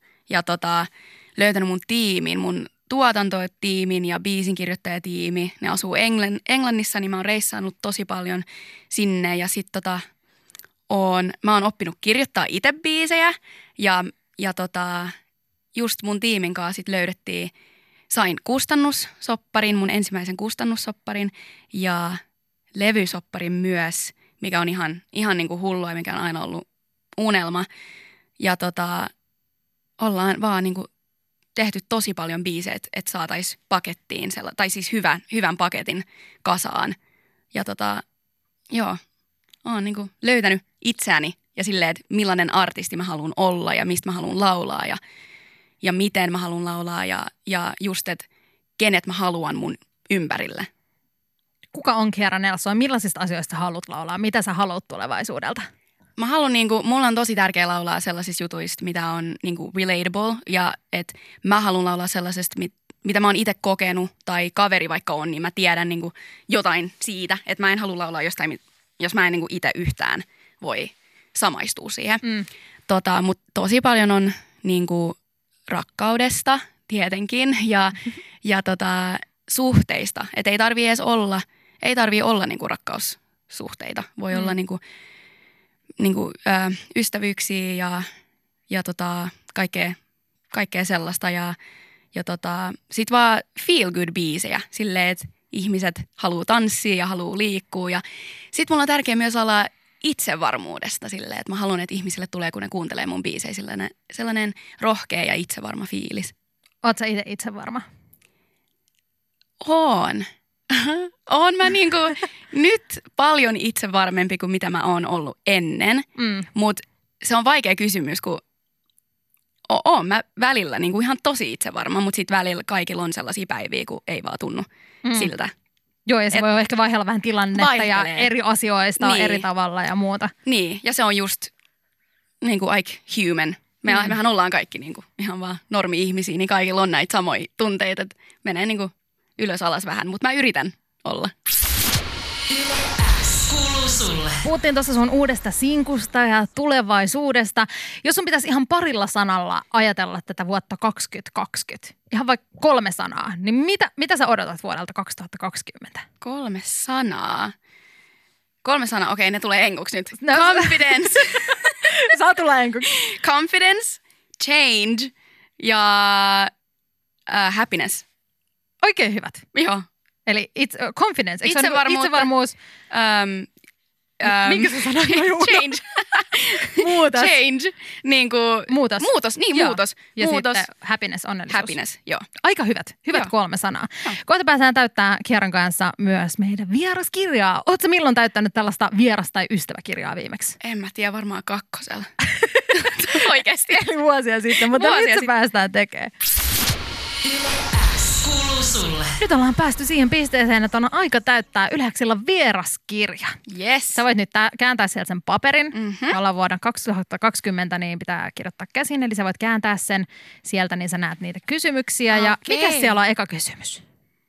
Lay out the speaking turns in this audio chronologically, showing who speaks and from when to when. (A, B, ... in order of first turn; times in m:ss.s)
0:00.3-0:10.0 A
0:10.9-0:15.1 A
0:15.8-0:17.5 A
0:18.1-0:22.2 A
0:22.8-0:26.6 A
0:27.2-0:27.7 A
0:28.4-0:29.1 A
0:30.0-0:30.9 A
0:31.6-0:37.0 A
0:37.5-0:38.0 A
0:38.7-0:39.0 A
0:39.6-0:45.0 A
0:45.8-0:48.3 A
0:48.8-0:50.7 A
0:51.7-0:55.7 B
0:56.2-1:12.2 A
1:12.9-1:15.2 A
1:15.7-1:24.8 A
1:26.0-1:28.1 A
1:28.7-1:30.0 A
1:30.5-1:31.6 A
1:32.1-1:46.3 A
1:46.8-1:47.8 B
1:49.6-1:58.4 A
1:56.2-1:56.5 B
1:59.7-2:05.5 A
2:05.0-2:05.3 B
2:06.1-2:10.3 B
2:07.5-2:08.3 A
2:09.0-2:09.5 A
2:10.5-2:11.5 A
2:12.4-2:21.3 A
2:13.9-2:14.2 B
2:23.4-2:24.3 C
2:24.4-2:36.1 B
2:36.2-2:37.5 A
2:38.6-2:41.9 A
2:40.2-2:42.9 B
2:42.8-2:46.5 A
2:47.3-2:48.0 A
2:48.8-2:49.5 B
2:49.5-2:49.8 A
2:50.3-2:52.6 B
2:51.4-2:52.3 A
2:52.9-2:53.5 A
2:54.2-3:00.6 A
2:54.2-2:55.8 B
2:56.6-2:57.4 B
2:58.7-3:01.8 B
3:01.5-3:02.3 A
3:02.4-3:10.6 B
3:10.6-3:12.1 A
3:12.4-3:16.1 B
3:12.7-3:13.9 A
3:14.5-3:15.3 A
3:18.1-3:19.1 C
3:19.2-3:23.4 B
3:23.5-3:24.0 A
3:24.0-3:33.8 B
3:25.7-3:26.2 A
3:32.1-3:33.0 A